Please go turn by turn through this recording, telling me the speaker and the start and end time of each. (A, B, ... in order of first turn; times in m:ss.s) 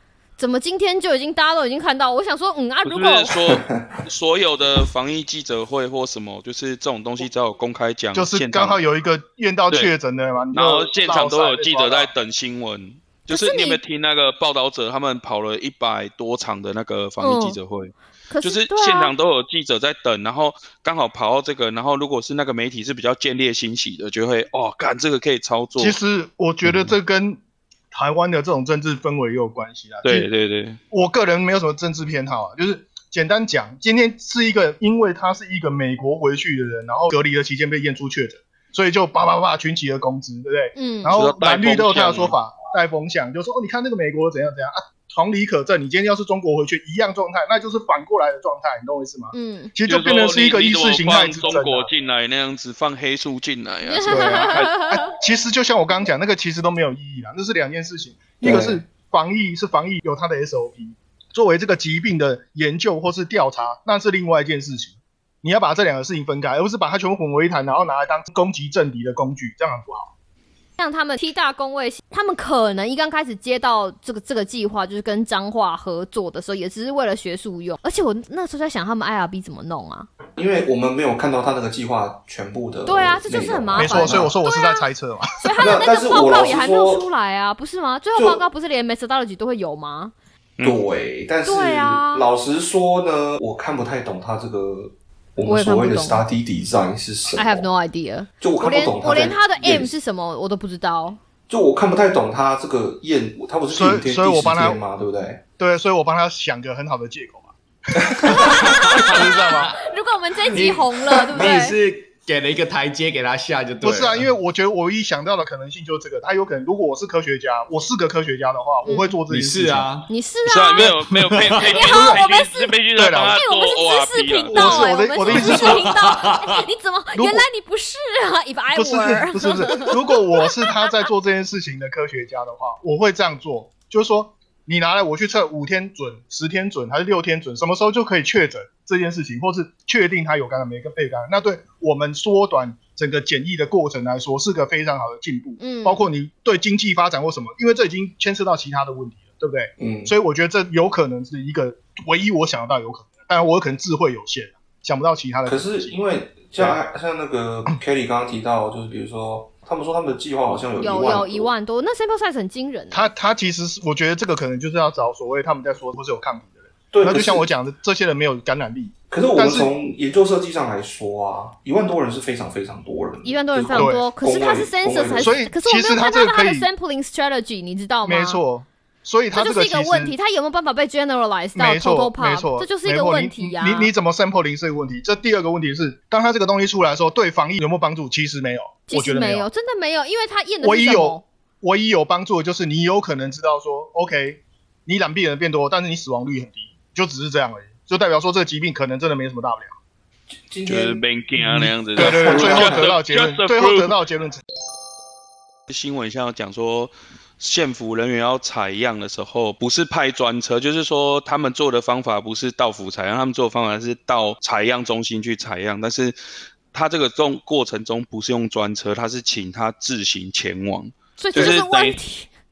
0:00.4-0:03.4 A
0:02.8-0:08.8 B
0:03.5-0:03.9 C
0:08.1-0:12.1 D
0:10.5-0:26.0 B
0:13.3-0:13.8 A
0:17.2-0:17.6 A
0:18.3-0:19.1 A
0:25.8-0:27.4 D
0:27.9-0:30.3 D
0:30.0-0:30.8 B
0:30.9-0:51.9 D
0:40.7-0:41.1 A
0:41.1-0:42.3 B
0:49.3-0:49.7 A
0:49.8-0:54.9 B
0:53.8-0:55.0 A
0:54.0-1:10.1 D
0:58.4-0:58.8 C
1:10.8-1:20.1 A
1:20.4-1:24.3 C
1:22.8-1:24.8 A
1:23.8-1:25.2 D
1:25.4-1:30.1 A
1:25.6-1:27.1 C
1:28.1-1:28.4 C
1:30.6-1:37.7 C
1:31.4-1:32.3 A
1:35.4-1:36.2 A
1:37.3-1:41.2 A
1:38.4-1:39.9 C
1:41.5-1:45.4 C
1:43.7-1:44.8 D
1:45.6-1:49.7 D
1:48.0-1:48.4 C
1:48.3-1:51.8 A
1:48.6-1:49.8 E
1:50.5-1:54.3 E
1:53.8-1:59.9 D
1:58.8-1:59.2 A
1:59.3-2:00.1 E
2:00.1-2:00.9 A
2:00.4-2:05.0 B
2:01.3-2:01.6 E
2:01.6-2:10.1 A
2:01.8-2:02.2 D
2:03.0-2:03.4 D
2:04.5-2:05.9 D
2:05.3-2:06.6 E
2:07.1-2:07.4 D
2:08.7-2:35.9 D
2:25.6-2:26.0 A
2:29.8-2:30.1 C
2:35.4-2:41.5 C
2:40.8-2:43.1 A
2:42.9-2:49.7 D
2:46.9-2:47.5 C
2:49.1-2:55.4 C
2:53.2-2:58.4 A
2:53.7-2:54.0 D
2:55.2-2:56.7 D
2:58.0-3:00.1 D
2:59.3-3:03.9 A
3:01.5-3:09.5 D
3:08.9-3:11.2 A
3:10.6-3:19.7 D
3:20.5-3:21.0 C
3:20.6-3:23.9 B
3:21.4-3:24.4 D
3:22.0-3:22.9 C
3:25.7-3:36.2 B
3:36.7-3:42.0 B
3:41.2-3:42.3 A